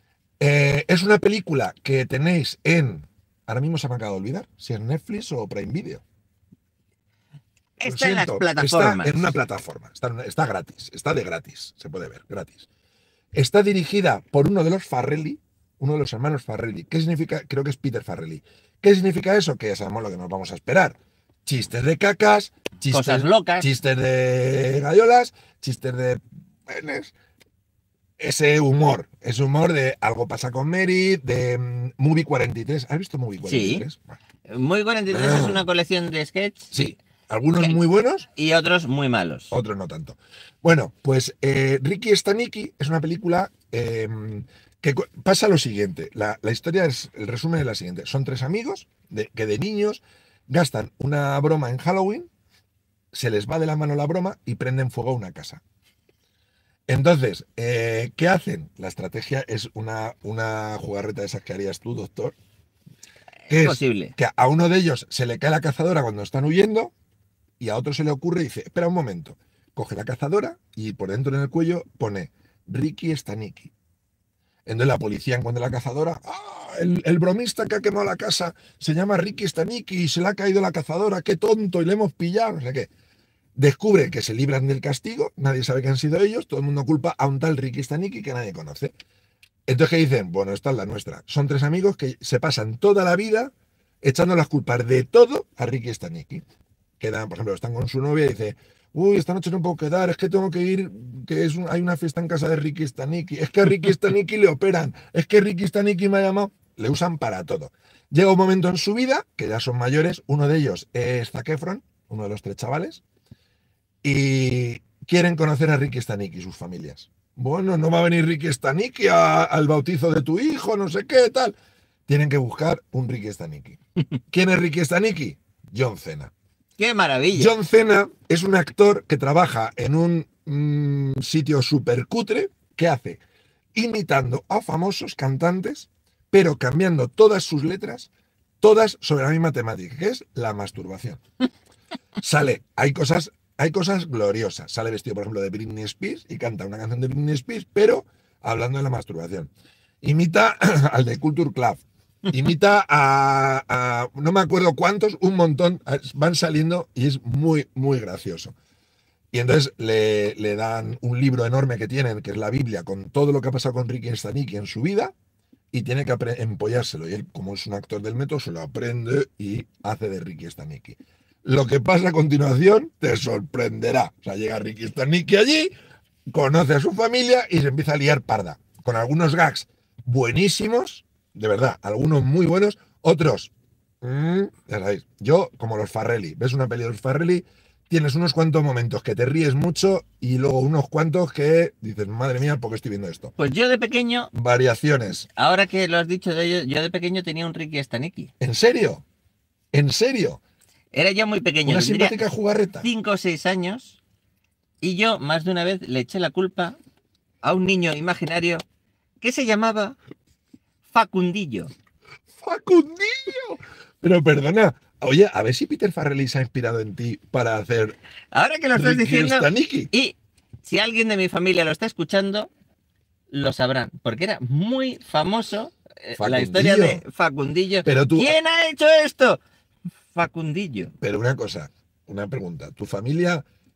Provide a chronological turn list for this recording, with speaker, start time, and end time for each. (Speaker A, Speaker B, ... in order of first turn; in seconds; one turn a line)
Speaker A: 0.4-6.0
Speaker B: 7.8-9.3
Speaker A: 7.8-12.7
Speaker A: 13.3-27.1
Speaker B: 22.9-23.7
Speaker A: 28.2-34.2
Speaker B: 33.4-33.8
Speaker B: 34.5-36.7
Speaker A: 35.1-35.6
Speaker A: 36.7-38.2
Speaker B: 38.3-39.5
Speaker A: 39.5-52.3
Speaker A: 53.1-55.6
Speaker A: 56.9-62.4
Speaker B: 63.5-64.1
Speaker A: 63.5-66.9
Speaker A: 67.6-73.7
Speaker A: 74.7-82.9
Speaker A: 83.5-88.9
Speaker A: 89.7-96.4
Speaker A: 97.0-113.0
Speaker A: 114.0-121.5
Speaker A: 122.1-123.8
Speaker A: 124.3-126.3
Speaker B: 126.8-127.5
Speaker A: 127.3-133.2
Speaker A: 133.7-138.1
Speaker A: 138.6-141.2
Speaker A: 142.2-149.5
Speaker A: 150.0-158.5
Speaker A: 159.3-165.1
Speaker A: 165.7-175.7
Speaker A: 176.3-183.5
Speaker A: 184.0-193.3
Speaker B: 193.4-194.3
Speaker A: 194.3-195.3
Speaker B: 195.3-198.3
Speaker A: 198.4-199.0
Speaker A: 199.7-200.4
Speaker B: 200.9-202.2
Speaker A: 201.6-202.9
Speaker B: 202.8-204.0
Speaker B: 204.8-206.8
Speaker B: 207.4-208.6
Speaker B: 209.2-210.0
Speaker B: 210.9-211.7
Speaker A: 212.4-218.0
Speaker B: 218.3-222.5
Speaker A: 218.7-219.9
Speaker B: 223.3-229.4
Speaker A: 226.2-227.0
Speaker A: 227.8-228.3
Speaker B: 230.1-230.9
Speaker A: 231.0-233.4